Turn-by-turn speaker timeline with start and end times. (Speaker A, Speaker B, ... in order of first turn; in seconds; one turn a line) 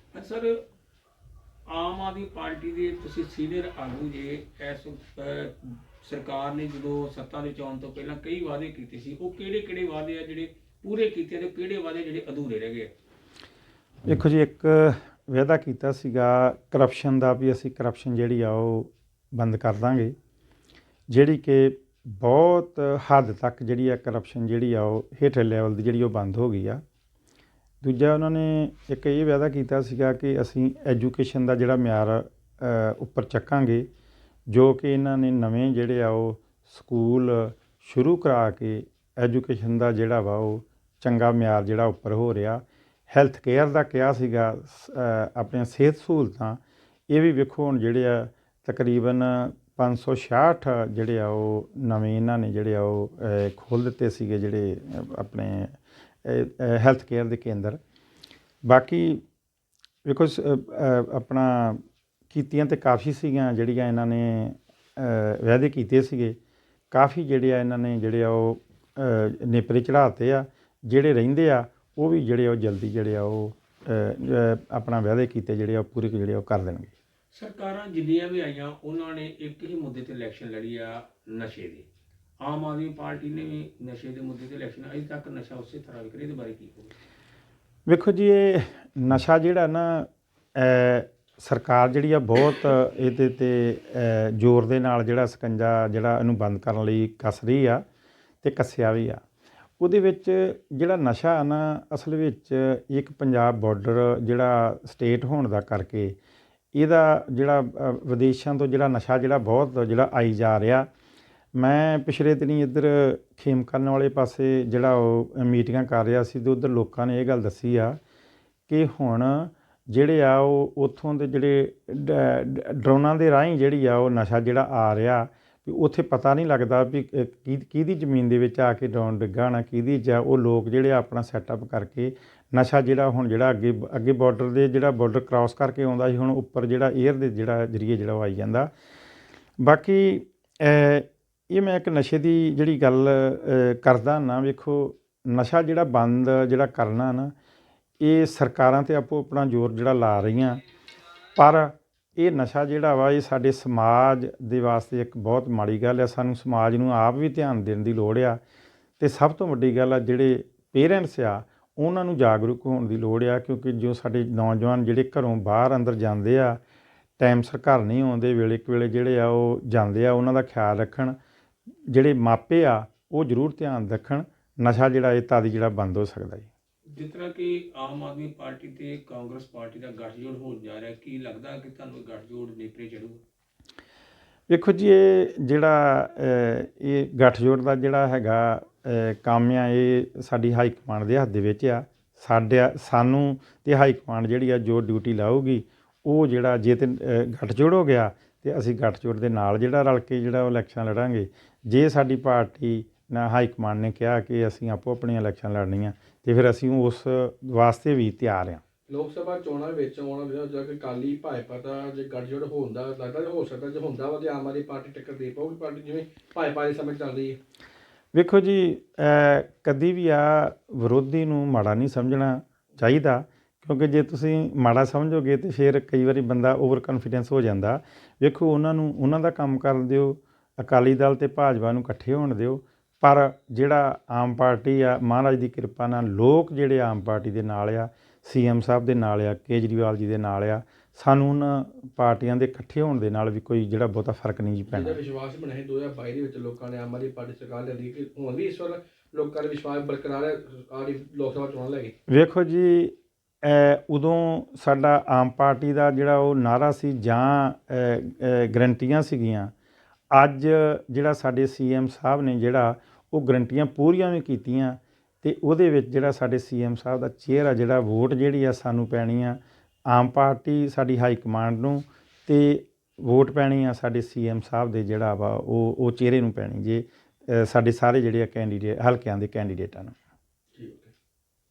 Speaker A: 0.1-0.6
Speaker A: 1.7-12.9
Speaker B: 14.0-20.1
Speaker B: 21.1-26.8
Speaker B: 27.8-33.9
Speaker B: 34.5-57.8
Speaker B: 58.6-59.2
Speaker B: 60.0-66.4
Speaker B: 66.9-76.9
Speaker A: 77.3-81.8
Speaker A: 82.4-86.9
Speaker B: 87.9-97.8
Speaker B: 98.4-99.2
Speaker B: 99.8-106.2
Speaker B: 106.7-110.9
Speaker B: 111.5-118.0
Speaker B: 118.7-138.7
Speaker B: 139.6-147.3
Speaker B: 148.0-150.6
Speaker B: 151.3-158.4
Speaker B: 159.0-166.6
Speaker B: 167.2-171.2
Speaker B: 171.9-176.5
Speaker A: 176.9-183.2
Speaker B: 184.5-208.6
Speaker C: 208.9-217.4
Speaker B: 218.1-245.0
Speaker C: 244.7-251.9
Speaker B: 252.1-259.5
Speaker B: 260.1-279.9
Speaker C: 280.5-280.9